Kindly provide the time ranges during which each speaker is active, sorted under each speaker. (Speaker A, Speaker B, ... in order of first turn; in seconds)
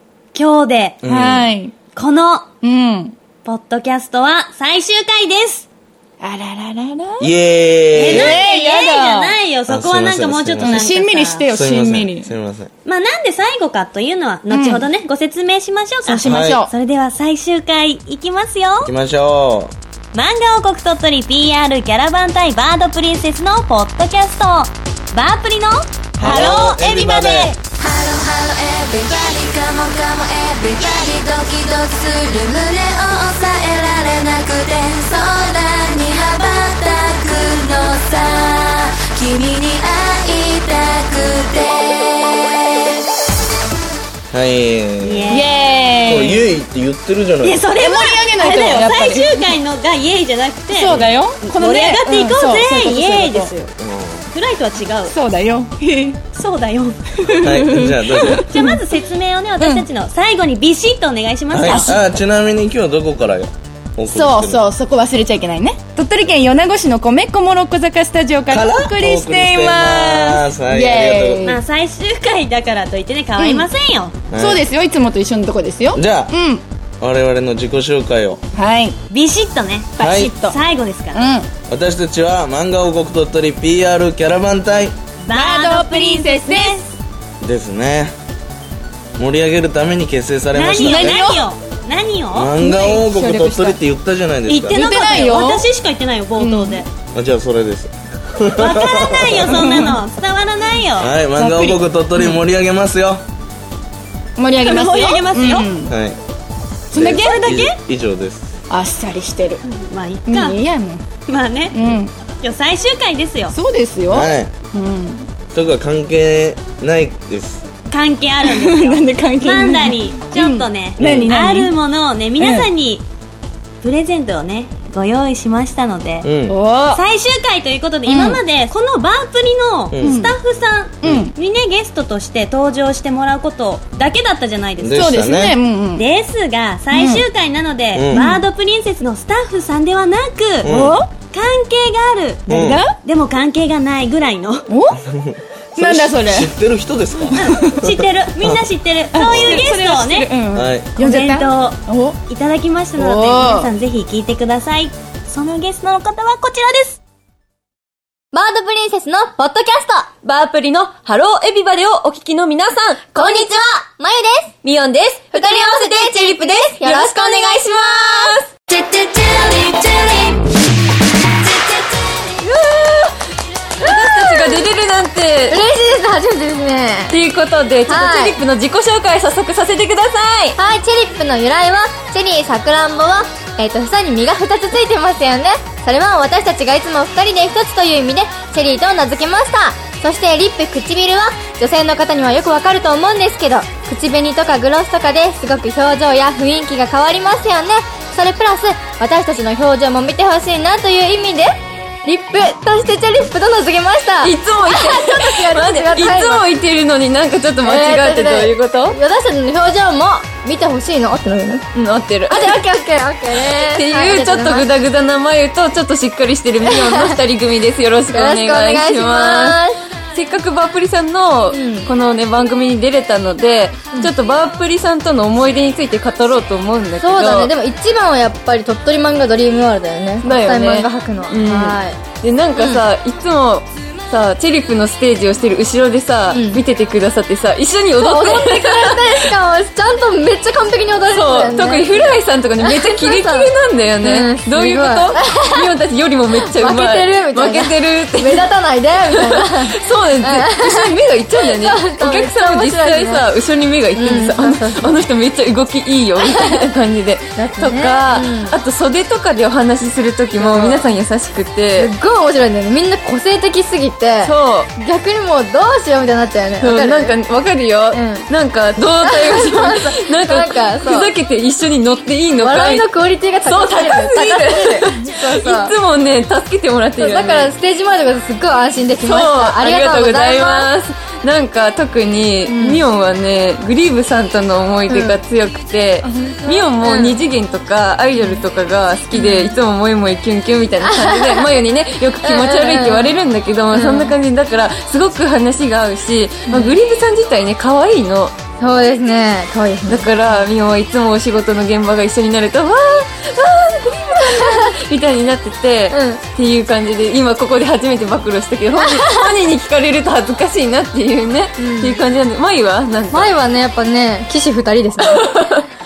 Speaker A: 0.3-1.0, 1.9-2.5, 3.4-5.7, 7.9-11.5, 12.8-18.9, 20.1-27.6, 45.0-45.5, 47.4-53.7, 54.3-55.1, 56.3-62.0, 71.4-74.1, 79.1-81.2, 85.2-86.8, 90.5-92.6, 94.5-96.9, 98.5-101.1, 104.6-105.7, 107.0-107.8, 109.6-110.6, 111.2-111.8, 112.4-113.5, 117.9-123.0, 123.8-126.3, 126.9-135.1, 135.9-144.7, 147.3-150.3, 150.9-157.0
Speaker B: 1.0-1.5, 7.2-8.4, 9.7-10.8, 11.5-12.7, 16.2-16.6, 18.8-19.7, 26.2-27.6, 44.3-45.4, 46.0-47.6, 53.8-54.2, 57.4-58.5, 61.5-64.7, 68.5-71.5, 74.3-74.6, 75.9-76.3, 77.0-78.4, 80.0-80.3, 81.7-85.0, 87.4-88.1, 89.2-91.2, 92.3-94.8, 97.1-99.6, 101.0-103.2, 105.9-106.2, 106.9-108.5, 114.1-114.5, 115.5-117.6, 121.0-121.3, 126.2-126.6, 129.9-130.2, 131.0-131.3, 134.8-135.6, 137.9-138.3, 140.6-141.0, 142.5-142.8, 145.0-148.6, 149.3-149.6, 150.5-150.9
Speaker C: 1.0-1.7, 2.6-3.1, 6.2-7.3, 8.0-9.3, 10.6-12.3, 14.5-14.9, 16.1-16.7, 45.3-46.5, 47.7-49.3, 50.7-53.5, 55.1-56.2, 57.2-58.8, 59.6-59.9, 61.6-62.0, 64.1-71.6, 73.4-73.7, 74.3-76.6, 78.5-79.0, 80.0-80.6, 81.1-81.5, 85.3-86.9, 90.8-91.4, 92.6-93.8, 94.7-95.6, 96.4-96.8, 99.6-100.0, 101.4-102.4, 104.4-105.9, 106.9-107.4, 108.7-109.6, 110.3-111.0, 111.7-112.1, 113.5-115.3, 118.4-121.7, 122.4-122.7, 126.5-127.0, 128.1-128.4, 130.0-130.3, 131.0-131.3, 134.9-136.1, 136.9-137.3, 138.1-138.4, 140.7-141.1, 142.5-142.9, 144.7-145.0, 145.8-146.5, 147.3-147.8, 149.1-152.2, 153.0-153.7
Speaker D: 27.6-42.8, 168.7-170.5, 171.2-172.3
Speaker E: 158.3-160.1, 163.2-164.5, 165.3-167.7, 173.8-174.6, 175.5-177.2, 177.9-178.4, 180.6-206.4, 207.6-211.7, 212.3-214.7, 216.7-217.2, 218.1-219.8, 221.5-221.9, 227.0-232.0, 232.6-232.8, 236.3-236.6, 238.0-242.1, 242.6-243.5, 244.0-245.7, 246.5-253.2, 253.9-255.0, 256.2-256.7, 257.4-258.6, 260.4-260.8, 261.8-267.1, 267.9-268.2, 269.0-271.1, 272.4-275.7, 277.0-280.7, 282.5-282.8, 284.9-285.2, 286.0-287.2, 289.1-289.5, 290.8-291.4, 292.2-293.1, 293.7-294.1, 296.5-296.8, 298.6-300.4, 304.3-304.7, 305.9-306.2, 308.8-309.3, 311.6-312.0, 313.1-315.4
Speaker F: 160.2-163.2, 164.6-165.6, 166.1-168.3, 172.5-173.1, 173.8-175.6, 177.1-180.6, 204.2-209.0, 211.7-212.6, 213.3-219.6, 220.1-227.5, 230.2-239.3, 241.1-248.5, 249.1-261.9, 264.2-264.7, 266.6-272.9, 273.4-277.5, 279.0-298.3, 299.9-313.3, 315.0-315.6